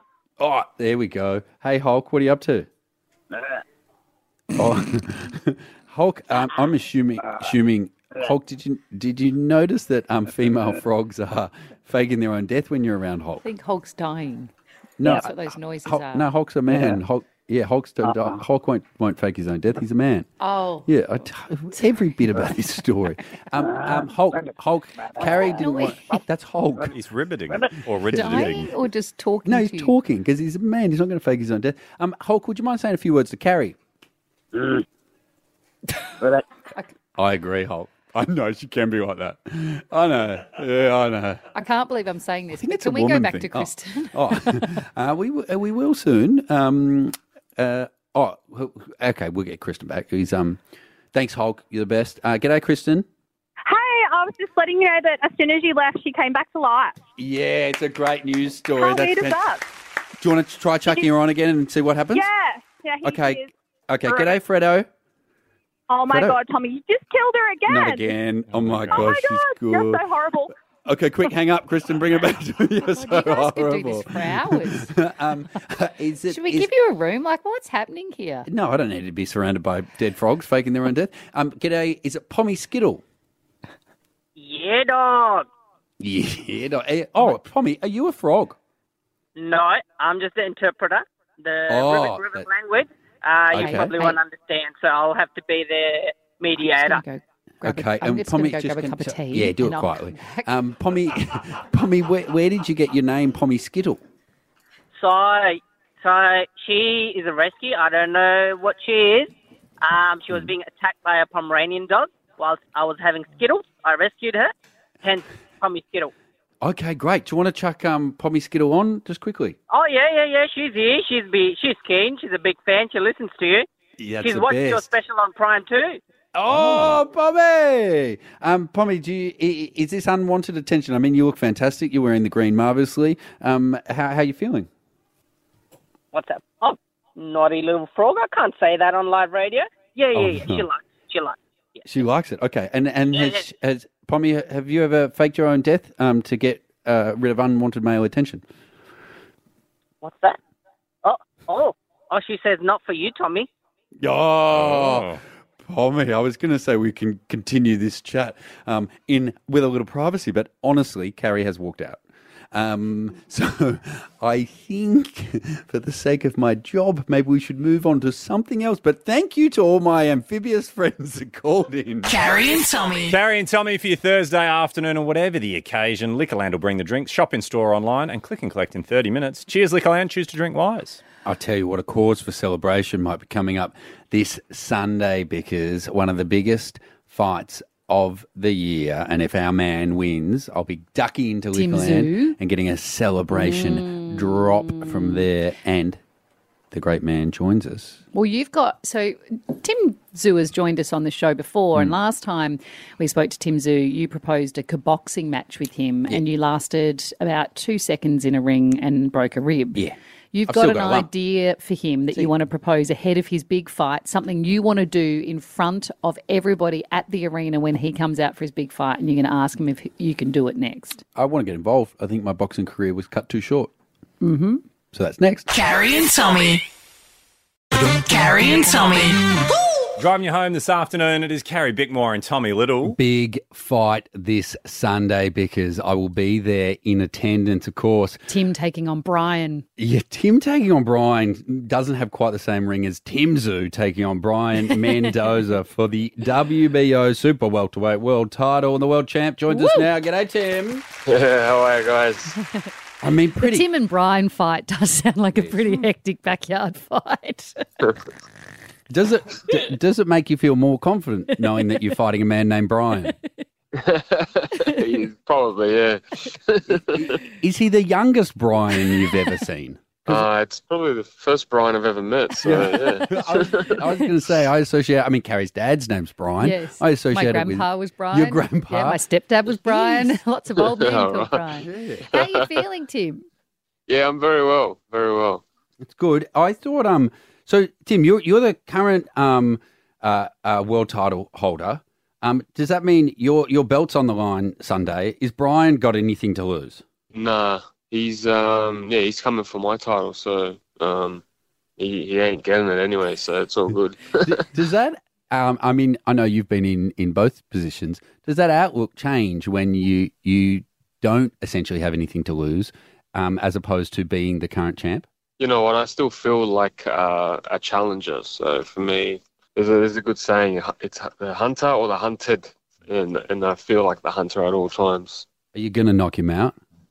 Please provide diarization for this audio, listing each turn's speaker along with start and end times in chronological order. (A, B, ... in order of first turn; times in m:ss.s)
0:00.4-0:02.7 A
0:04.5-0:13.4 A
0:13.4-0:14.5 B
0:15.0-0:20.3 A
0:15.0-0:16.3 B
0:20.4-0:20.9 B
0:20.9-0:27.0 A
0:25.2-0:26.0 B
0:26.9-0:28.7 C
0:28.0-0:28.6 A
0:28.1-0:29.9 B
0:29.5-0:33.8 A
0:37.2-0:41.4 A
0:41.5-0:44.7 B
0:42.5-0:50.6 A
0:51.1-0:53.0 A
0:53.6-0:57.0 D
0:57.2-0:59.4 A
0:58.8-0:59.6 D
1:00.2-1:02.3 A
1:02.1-1:03.5 D
1:03.0-1:04.9 A
1:04.0-1:04.4 D
1:05.9-1:08.2 D
1:06.1-1:06.4 A
1:07.7-1:10.0 A
1:08.5-1:09.1 C
1:08.9-1:10.5 D
1:10.8-1:16.7 A
1:12.8-1:14.9 B
1:16.3-1:18.5 B
1:18.5-1:23.0 A
1:24.4-1:25.5 E
1:26.0-1:28.6 A
1:29.4-1:37.0 E
1:31.7-1:32.5 A
1:33.5-1:34.0 A
1:33.6-1:34.2 B
1:36.7-1:40.5 B
1:37.6-1:44.0 A
1:45.0-1:49.3 E
1:49.8-1:56.1 E
1:56.6-1:59.6 A
1:59.7-2:03.7 E
2:04.0-2:04.9 A
2:04.2-2:06.0 E
2:06.4-2:14.7 A
2:06.5-2:07.0 C
2:16.1-2:21.8 E
2:20.1-2:20.7 A
2:21.8-2:28.4 A
2:23.1-2:23.4 E
2:30.0-2:30.4 E
2:31.0-2:33.5 E
2:34.0-2:52.1 A
2:34.5-2:35.2 C
2:52.0-2:53.2 F
2:53.1-3:01.0 C
3:01.2-3:16.0 A
3:11.5-3:12.4 B
3:13.3-3:15.2 B
3:16.7-3:18.0 A
3:18.1-3:41.0 B
3:30.5-3:31.1 A
3:41.1-3:43.7 A
3:44.2-3:44.6 B
3:44.9-3:45.5 A
3:45.5-3:46.6 F
3:47.8-3:49.4 F
3:50.0-3:53.0 C
3:52.8-3:58.2 A
3:58.3-3:59.6 B
3:59.8-4:10.8 A
4:04.7-4:05.1 B
4:09.5-4:09.9 B
4:11.1-4:12.4 G
4:13.0-4:13.7 A
4:13.4-4:17.6 B
4:15.3-4:15.8 A
4:18.9-4:23.1 A
4:23.7-4:27.1 G
4:26.8-4:30.3 A
4:30.0-4:33.8 G
4:32.4-4:39.0 A
4:36.4-4:43.2 B
4:39.6-4:40.1 A
4:40.6-4:41.4 G
4:41.5-4:42.1 A
4:43.9-4:45.4 G
4:45.8-4:56.8 A
4:57.1-5:01.2 G
5:01.8-5:04.4 G
5:04.2-5:15.0 A
5:15.4-5:25.2 G
5:25.5-5:26.6 A